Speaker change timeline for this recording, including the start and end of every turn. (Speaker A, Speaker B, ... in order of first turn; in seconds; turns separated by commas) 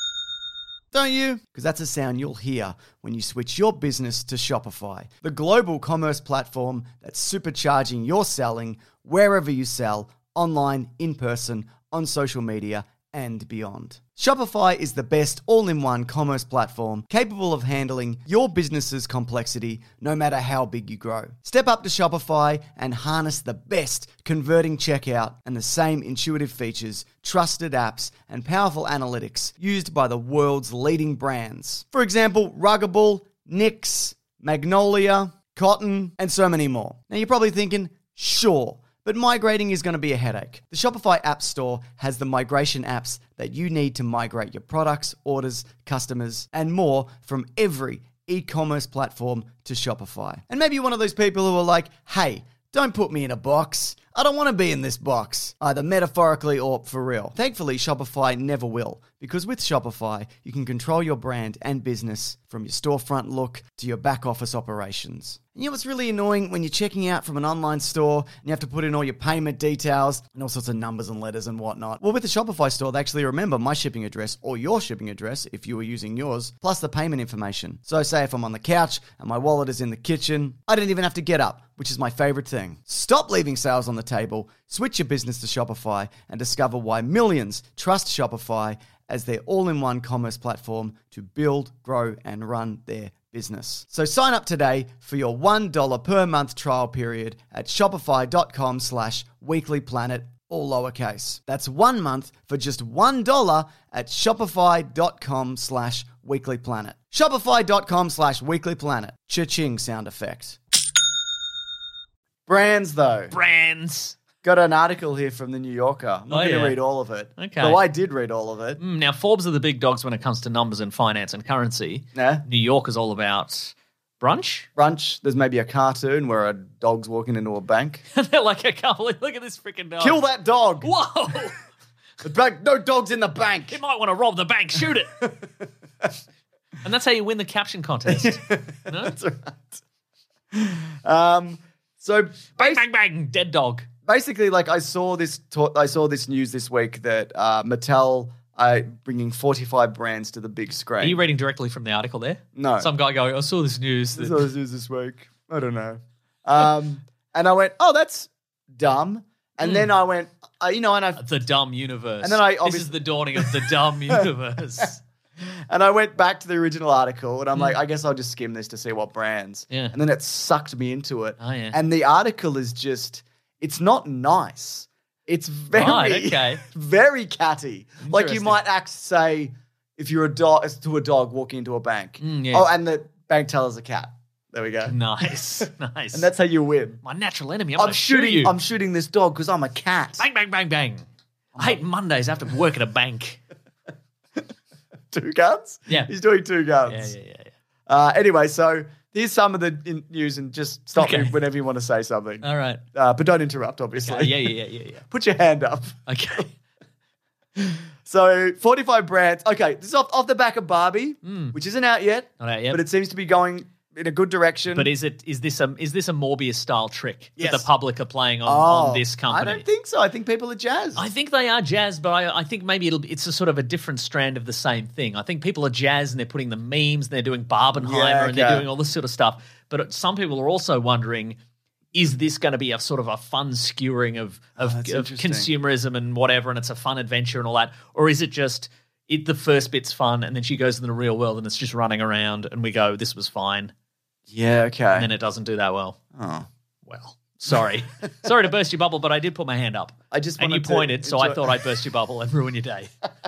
Speaker A: 0.9-110.6, Speaker A: 112.5-113.3, Speaker B: 113.3-114.2, Speaker A: 114.4-118.8, Speaker B: 116.3-116.8, Speaker B: 117.4-117.8, Speaker B: 118.8-124.7, Speaker A: 122.1-122.4, Speaker A: 124.8-128.0, Speaker B: 128.1-130.2, Speaker A: 130.0-130.9, Speaker B: 130.8-131.6, Speaker A: 132.2-133.8, Speaker B: 133.7-135.1, Speaker A: 135.2-136.1, Speaker B: 136.8-139.1, Speaker A: 138.1-139.8, Speaker A: 140.5-142.8, Speaker B: 142.6-143.9, Speaker A: 144.1-151.2, Speaker B: 151.0-154.5, Speaker A: 152.5-152.9, Speaker A: 154.1-161.2, Speaker B: 159.6-159.9, Speaker B: 161.2-165.0, Speaker A: 162.2-164.2, Speaker A: 165.4-184.9, Speaker B: 169.7-169.9, Speaker B: 171.4-171.8, Speaker B: 175.7-176.6, Speaker B: 178.0-178.6, Speaker B: 182.2-182.7, Speaker B: 184.8-186.3, Speaker A: 186.1-187.0, Speaker B: 187.0-188.5, Speaker A: 187.8-190.2, Speaker B: 190.2-191.0, Speaker B: 191.6-193.4, Speaker A: 195.1-197.1, Speaker B: 196.9-197.5, Speaker A: 197.9-206.4, Speaker B: 200.9-201.4, Speaker B: 202.4-202.8, Speaker B: 204.0-205.0, Speaker B: 206.1-206.5, Speaker A: 207.6-214.9, Speaker B: 211.2-211.6, Speaker B: 212.4-212.8, Speaker B: 214.7-219.6, Speaker A: 217.4-217.7, Speaker A: 218.4-221.1, Speaker B: 220.9-231.4, Speaker A: 227.8-228.7, Speaker B: 231.9-243.7, Speaker A: 234.6-235.5, Speaker A: 244.3-245.1, Speaker B: 244.9-246.0, Speaker A: 246.1-246.5, Speaker B: 246.8-252.9, Speaker A: 250.1-251.6